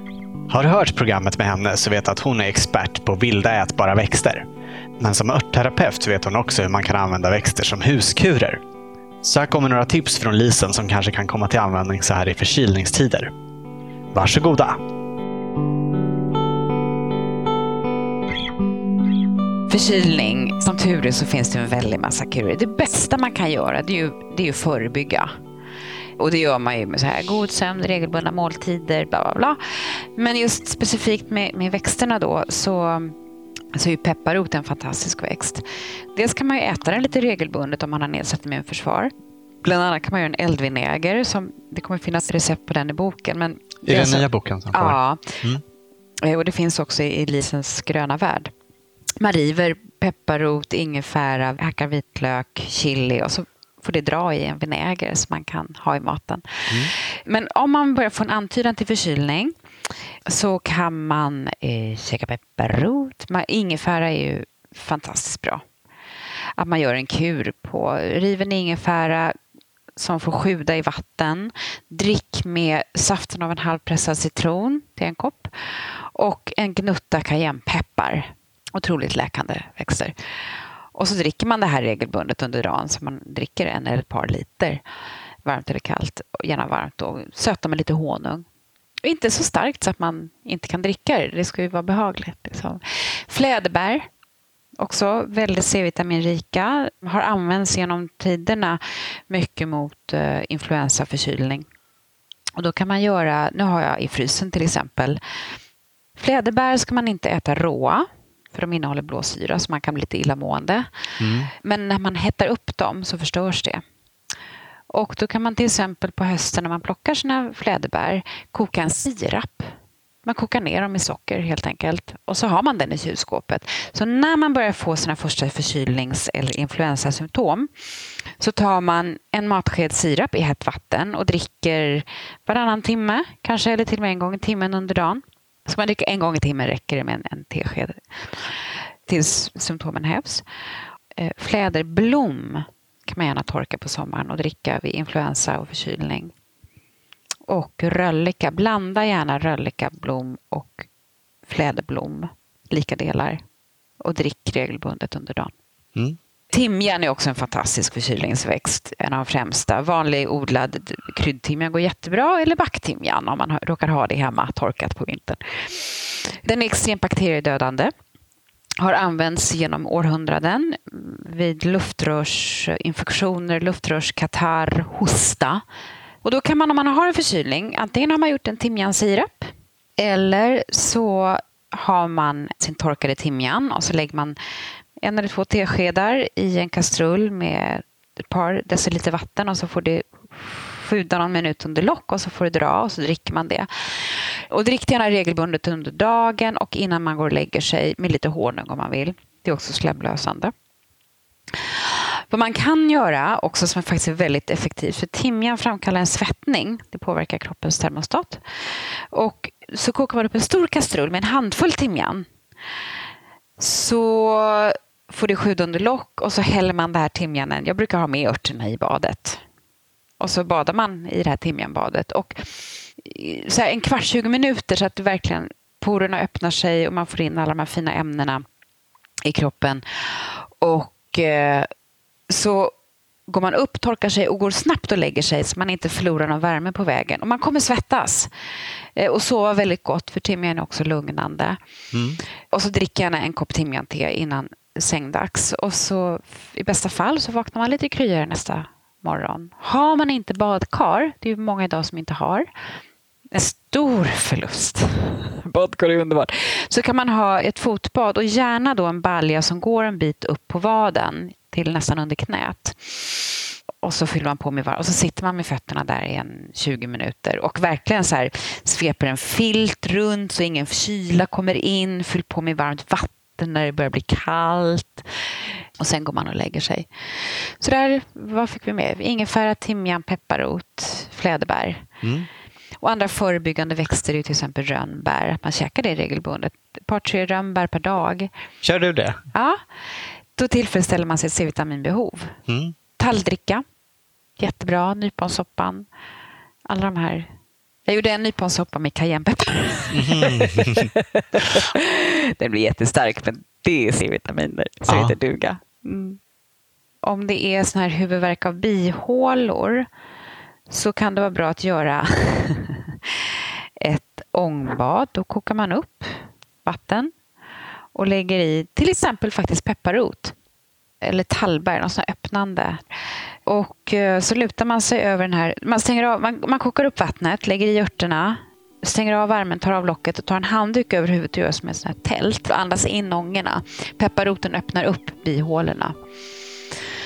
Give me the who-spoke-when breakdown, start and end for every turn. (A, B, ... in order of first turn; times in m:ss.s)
0:00.5-0:04.4 A
0:05.0-0:08.6 A
0:09.2-0:13.3 A
0:14.1-0:14.7 A
0:19.7-0:25.3 B
0:26.2-0:33.2 B
0:33.7-0:39.1 B
0:39.6-0:45.6 B
0:43.8-0:45.6 A
0:46.2-0:48.5 B
0:49.2-0:59.6 B
1:00.3-1:05.6 B
1:06.6-1:09.4 B
1:10.0-1:20.1 B
1:20.9-1:24.8 B
1:25.4-1:28.4 B
1:29.0-1:34.1 B
1:34.8-1:41.6 B
1:42.6-1:45.2 B
1:46.2-1:53.8 B
1:51.2-1:51.5 A
1:54.9-2:07.7 B
2:08.4-2:20.4 B
2:21.1-2:26.3 B
2:27.5-2:30.9 B
2:31.4-2:33.4 B
2:34.0-2:35.5 B
2:36.5-2:47.9 B
2:48.8-2:55.6 B
2:56.2-3:04.4 B
3:05.0-3:20.5 B
3:21.5-3:32.2 B
3:33.6-3:39.4 B
3:40.2-3:48.4 B
3:49.2-3:51.7 B
3:52.3-3:52.7 B
3:53.3-3:58.3 B
3:59.0-4:01.6 B
4:01.9-4:02.2 A
4:02.5-4:12.5 B
4:13.3-4:41.9 B
4:42.0-4:42.3 A
4:42.8-4:48.3 B
4:48.6-4:49.2 A
4:50.4-4:52.4 B
4:52.5-4:52.7 A
4:53.0-4:53.6 B
4:54.4-4:55.9 B
4:56.7-4:57.3 B
4:57.9-5:06.2 B
4:59.9-5:00.9 A
5:04.9-5:05.1 A
5:07.0-5:09.9 B
5:10.7-5:17.1 B
5:17.9-5:20.3 B
5:21.0-5:22.8 B
5:23.4-5:36.0 B